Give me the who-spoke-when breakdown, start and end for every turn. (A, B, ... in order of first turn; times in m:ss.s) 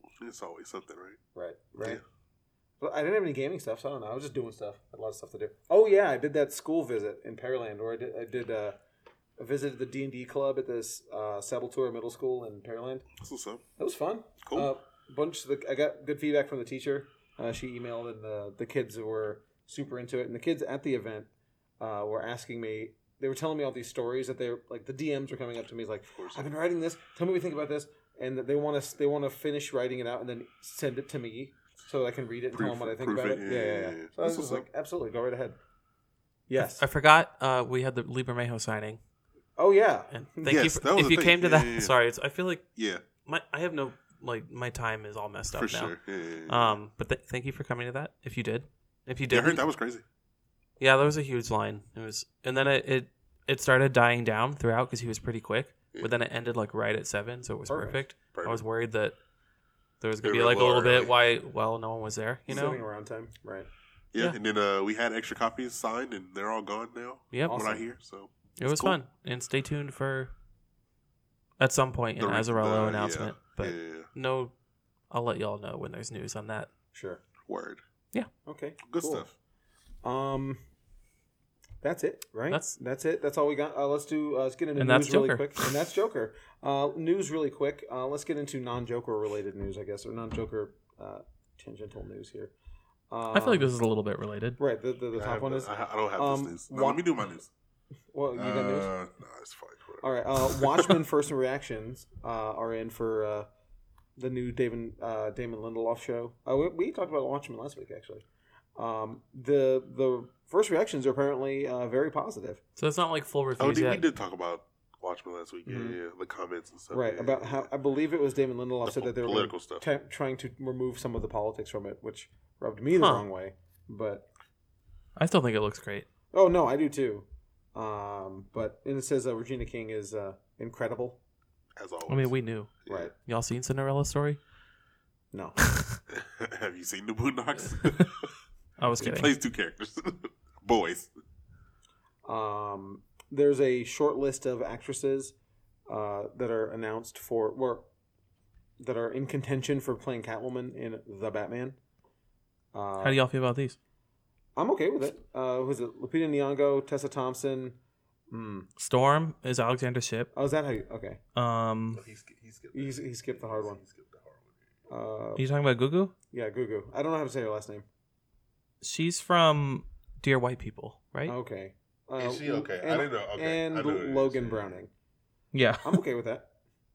0:00.2-0:01.2 A
0:01.4-0:02.0 B
0:02.8-0:08.8 B
0:09.4-0:13.1 B
0:13.2-0:13.6 A
0:13.8-0:21.3 B
0:14.4-0:14.7 A
0:21.8-0:35.6 B
0:26.2-0:26.5 A
0:32.5-0:34.7 A
0:36.5-0:36.8 B
0:36.6-0:39.0 C
0:39.6-0:40.6 B
0:40.1-0:42.6 C
0:40.5-0:42.0 A
0:42.8-0:43.0 A
0:43.3-0:46.0 C
0:45.5-0:46.8 A
0:46.5-0:49.6 C
0:49.3-0:50.0 A
0:50.8-0:59.2 C
0:57.7-0:58.0 B
0:58.3-0:58.6 A
1:00.0-1:02.8 C
1:00.2-1:01.1 A
1:02.5-1:02.8 A
1:02.5-1:03.7 B
1:04.1-1:09.0 A
1:07.3-1:07.7 C
1:07.5-1:07.8 B
1:08.6-1:10.3 C
1:11.6-1:14.5 C
1:12.2-1:14.1 A
1:15.1-1:16.7 C
1:16.9-1:17.2 B
1:17.4-1:17.8 A
1:18.5-1:19.3 B
1:18.9-1:19.3 A
1:20.0-1:20.6 B
1:21.8-1:32.5 B
1:24.8-1:25.7 C
1:33.1-1:33.7 B
1:33.3-1:34.6 C
1:34.6-1:37.0 B
1:35.1-1:37.5 A
1:38.1-1:38.9 B
1:38.4-1:41.0 A
1:40.0-1:43.5 B
1:44.2-1:48.2 B
1:48.8-1:52.6 B
1:52.8-1:54.0 C
1:53.6-1:57.7 A
1:55.7-1:56.0 B
1:56.9-2:04.3 B
1:58.8-1:59.8 A
2:03.0-2:03.2 C
2:05.2-2:06.1 C
2:06.3-2:11.2 B
2:11.8-2:12.3 A
2:12.1-2:14.4 C
2:12.8-2:13.1 A
2:12.9-2:13.1 B
2:15.3-2:15.6 B
2:15.7-2:16.0 C
2:16.1-2:18.3 A
2:17.8-2:18.1 C
2:18.8-2:19.4 C
2:19.0-2:21.1 A
2:22.2-2:25.3 B
2:25.9-2:27.8 B
2:28.8-2:31.8 B
2:32.7-2:33.2 B
2:33.0-2:33.8 C
2:34.6-2:37.8 B
2:38.3-2:38.7 B
2:38.8-2:40.3 C
2:40.3-2:41.2 B
2:41.4-2:42.0 C
2:41.9-2:44.6 A
2:42.7-2:43.8 B
2:44.9-2:45.4 B
2:45.4-2:46.1 C
2:46.3-2:47.8 B
2:48.8-2:51.4 C
2:51.3-2:54.9 B
2:52.2-2:54.8 A
2:55.5-2:56.0 C
2:55.8-2:56.5 B